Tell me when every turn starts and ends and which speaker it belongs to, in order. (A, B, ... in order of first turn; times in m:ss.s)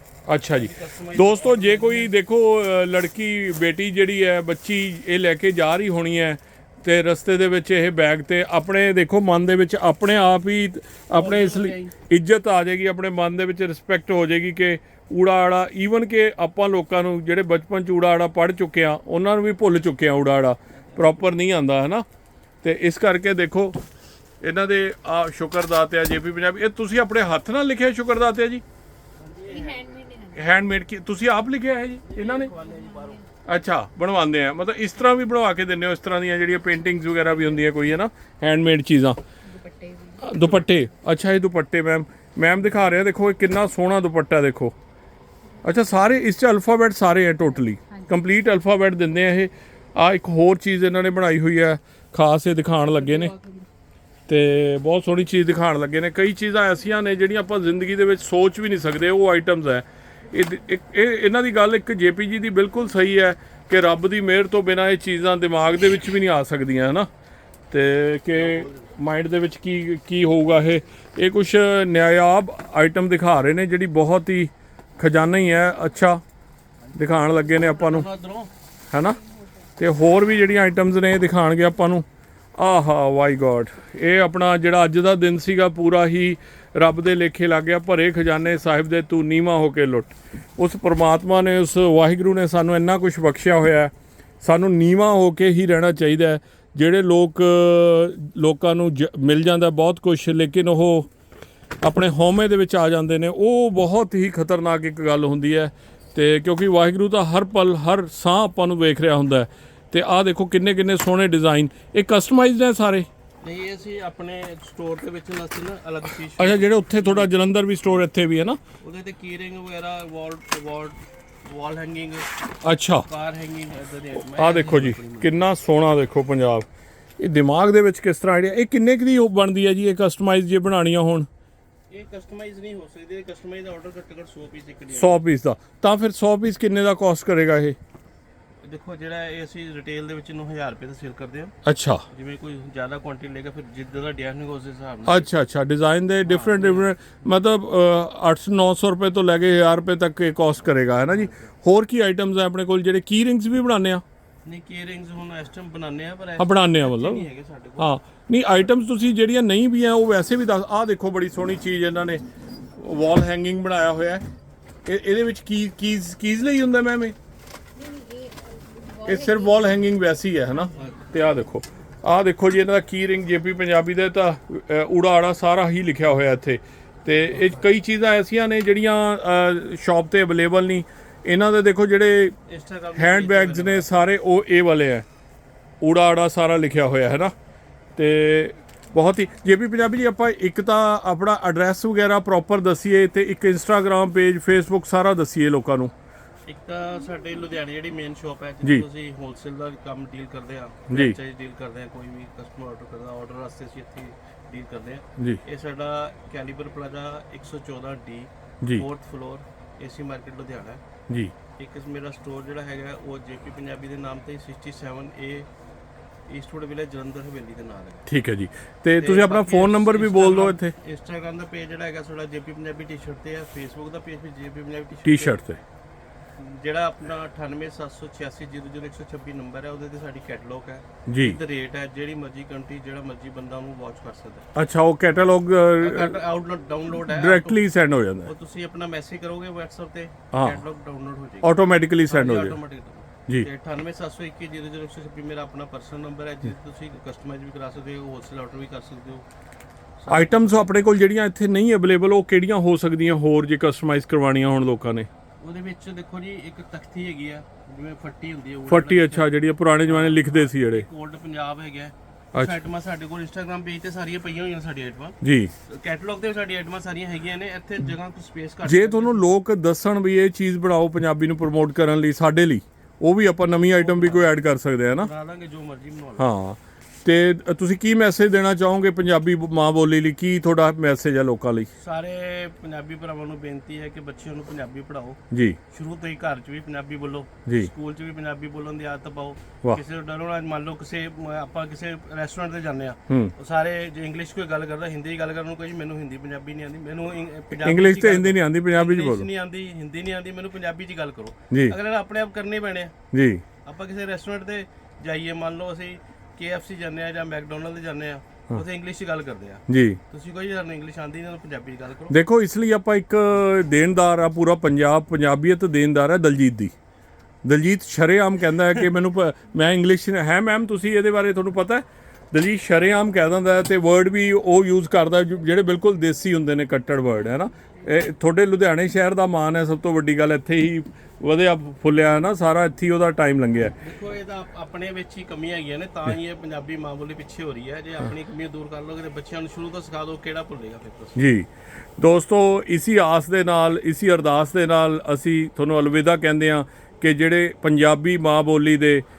0:00.3-0:22.0 A
0:00.5-0:02.1 B
0:11.1-0:11.9 B
0:20.7-0:21.3 B
0:22.6-0:23.8 A
0:24.4-0:28.6 A
0:29.2-0:30.1 B
0:29.5-0:30.5 C
0:30.3-0:32.5 A
0:32.0-0:33.2 B
0:32.5-0:33.2 C
0:33.4-0:39.2 A
0:39.4-0:40.4 C
0:40.2-0:44.7 A
0:45.6-0:53.3 A
0:54.3-1:07.1 A
1:07.7-1:16.2 A
1:08.4-1:08.9 B
1:17.0-1:18.1 A
1:17.5-1:18.5 B
1:18.9-1:19.2 A
1:19.2-1:19.6 C
1:19.8-1:22.0 A
1:22.6-1:41.1 A
1:41.8-1:53.1 A
1:53.4-1:58.0 B
1:56.4-1:58.6 A
1:58.8-2:02.3 B
2:02.6-2:03.0 A
2:03.0-2:05.4 B
2:04.3-2:06.7 A
2:07.2-2:11.3 A
2:11.9-2:15.2 B
2:14.9-2:17.8 A
2:18.6-2:21.5 B
2:21.6-2:22.0 A
2:22.1-2:25.3 B
2:25.0-2:34.0 A
2:26.2-2:26.9 B
2:31.1-2:31.5 B
2:34.4-2:37.9 B
2:36.4-2:37.3 A
2:37.8-2:42.2 A
2:42.8-2:44.2 A
2:44.8-2:47.1 A
2:47.8-2:49.9 C
2:49.0-3:02.4 A
2:50.7-2:51.1 B
2:57.3-2:57.6 B
3:02.5-3:03.9 B
3:02.9-3:05.0 A
3:05.8-3:07.3 A
3:08.0-3:15.9 A
3:16.5-3:30.8 B
3:20.9-3:21.2 A
3:31.6-3:35.5 B
3:36.3-3:38.1 B
3:38.1-3:40.7 A
3:38.9-3:45.4 B
3:45.0-3:45.6 A
3:46.4-3:54.4 B
3:51.1-3:51.4 A
3:54.5-3:56.2 A
3:55.8-3:57.6 B
3:57.1-3:58.3 A
3:58.2-4:09.2 B
4:00.3-4:00.6 A
4:01.4-4:02.6 A
4:10.0-4:10.7 B
4:10.1-4:15.1 A
4:15.4-4:29.3 B
4:18.7-4:20.8 A
4:25.2-4:25.5 A
4:28.6-4:35.1 A
4:33.6-4:34.3 B
4:35.0-4:36.3 B
4:36.2-4:41.7 A
4:41.7-4:45.2 B
4:45.3-4:45.6 A
4:45.7-5:02.9 B
4:57.6-4:59.3 A
5:03.1-5:03.4 A
5:03.6-5:12.2 B
5:09.7-5:10.0 A
5:12.1-5:16.7 A
5:17.4-5:33.7 A
5:33.8-5:41.2 B
5:41.2-5:49.0 A